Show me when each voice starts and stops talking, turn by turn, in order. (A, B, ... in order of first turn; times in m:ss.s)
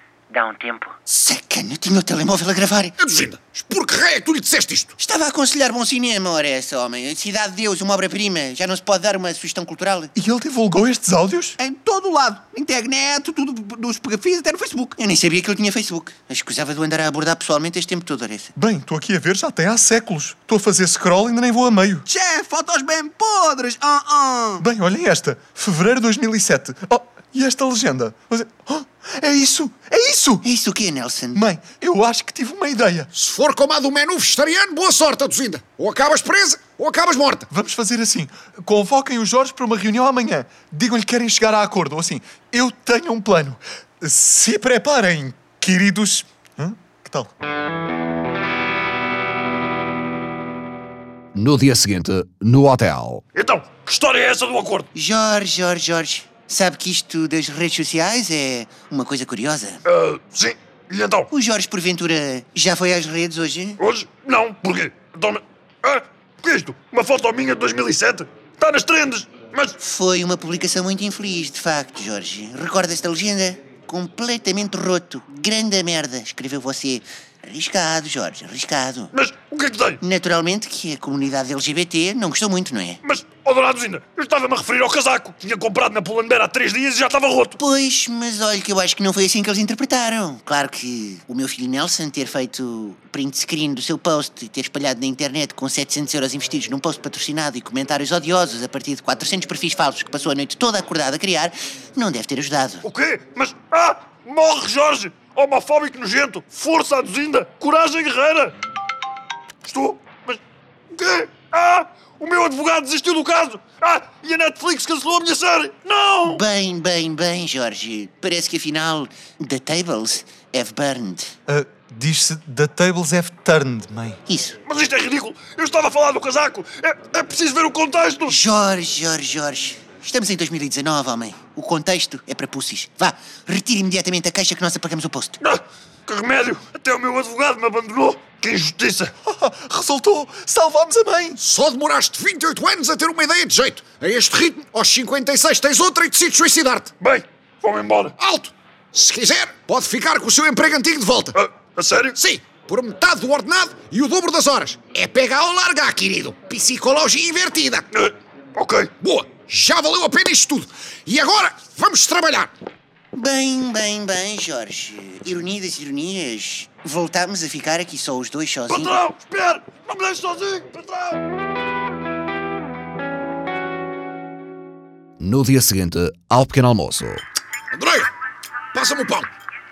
0:00.3-0:02.9 A
0:03.0-0:04.9 B
0:05.0-0:10.1 A
0:10.1-0:11.6 C
0:11.6-0:14.9 D
0:15.0-0:18.5 A
0:18.5-0:22.0 C
0:22.1-0:24.6 D
0:24.6-0:30.5 C
0:30.4-0:31.4 A
0:31.3-0:33.1 C
0:33.2-0:37.4 B
0:37.5-0:47.3 C
0:51.3-0:53.2 E
0:53.3-0:54.9 F
0:54.9-0:59.8 A
0:59.9-1:01.3 F
1:01.3-1:03.8 A
1:03.8-1:09.8 F
1:09.8-1:19.1 A
1:19.1-1:20.0 F
1:20.0-1:23.0 A
1:23.0-1:27.6 F
1:27.6-1:42.8 A
1:42.8-1:48.5 F
1:49.6-1:50.4 F
1:50.9-1:56.4 F
1:56.2-2:01.4 A
2:01.5-2:04.2 C
2:04.3-2:04.6 A
2:04.6-2:08.3 F
2:08.3-2:15.4 A
2:15.4-2:19.1 F
2:19.2-2:21.4 C
2:21.4-2:26.9 B
2:27.0-2:28.1 F
2:28.2-2:31.3 B
2:31.3-2:32.2 F
2:32.2-2:37.8 B
2:37.9-2:38.9 F
2:39.0-2:42.5 B
2:43.1-2:49.0 A
2:48.7-2:51.2 F
2:55.2-2:57.2 E
2:57.7-2:58.1 B
2:58.7-2:59.3 B